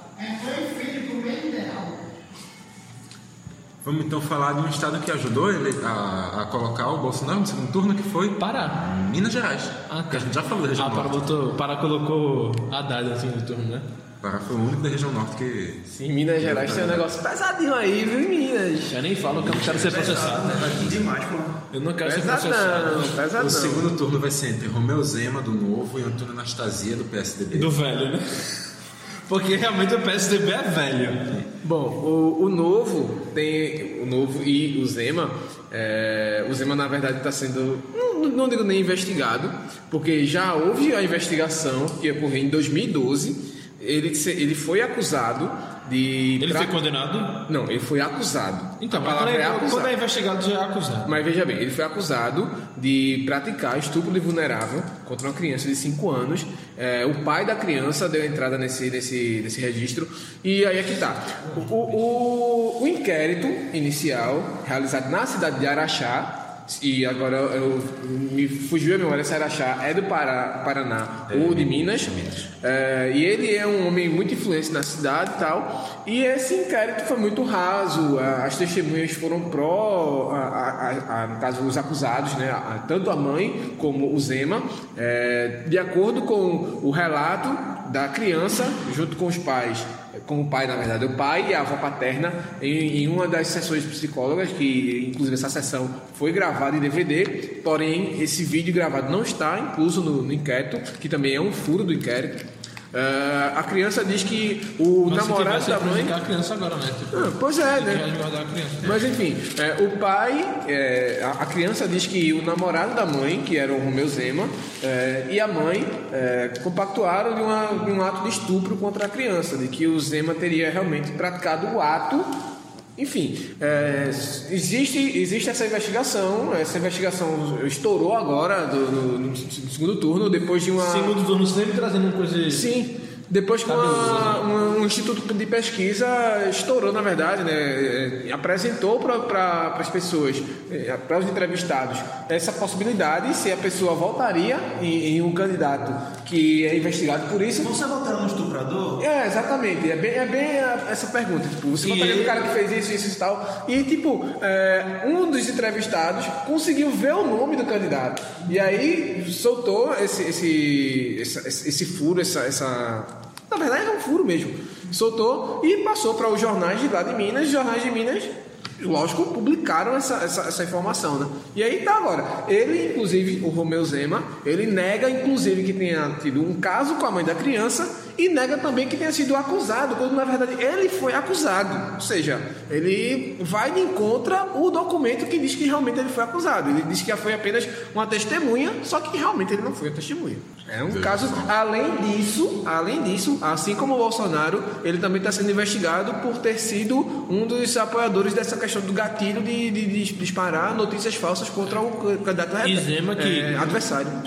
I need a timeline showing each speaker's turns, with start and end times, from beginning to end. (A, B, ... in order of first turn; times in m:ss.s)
0:00.2-0:01.8 A
0:03.8-0:11.3 B
0:08.4-0:08.8 C
0:09.9-0:13.9 C
0:14.2-0:15.9 B
0:15.9-0:19.0 A
0:16.4-0:17.1 B
0:18.9-0:20.8 C
0:19.3-0:21.1 B
0:19.7-0:21.6 D
0:21.7-0:23.1 C
0:22.0-0:23.8 A
0:23.3-0:27.8 B
0:27.5-0:28.7 C
0:29.2-0:31.4 C
0:31.6-0:46.8 A
0:46.4-0:47.4 C
0:47.4-0:49.9 A
0:48.8-0:51.2 C
0:51.0-1:46.1 A
1:11.3-1:12.5 B
1:45.0-1:49.1 C
1:47.1-1:48.0 A
1:48.8-2:02.3 A
2:03.0-2:11.2 A
2:10.8-2:12.6 C
2:12.5-2:27.7 A
2:13.6-2:14.5 C
2:27.6-2:29.0 D
2:29.0-3:24.2 A
2:31.8-2:32.4 C
3:10.9-3:11.5 B
3:22.6-3:23.7 C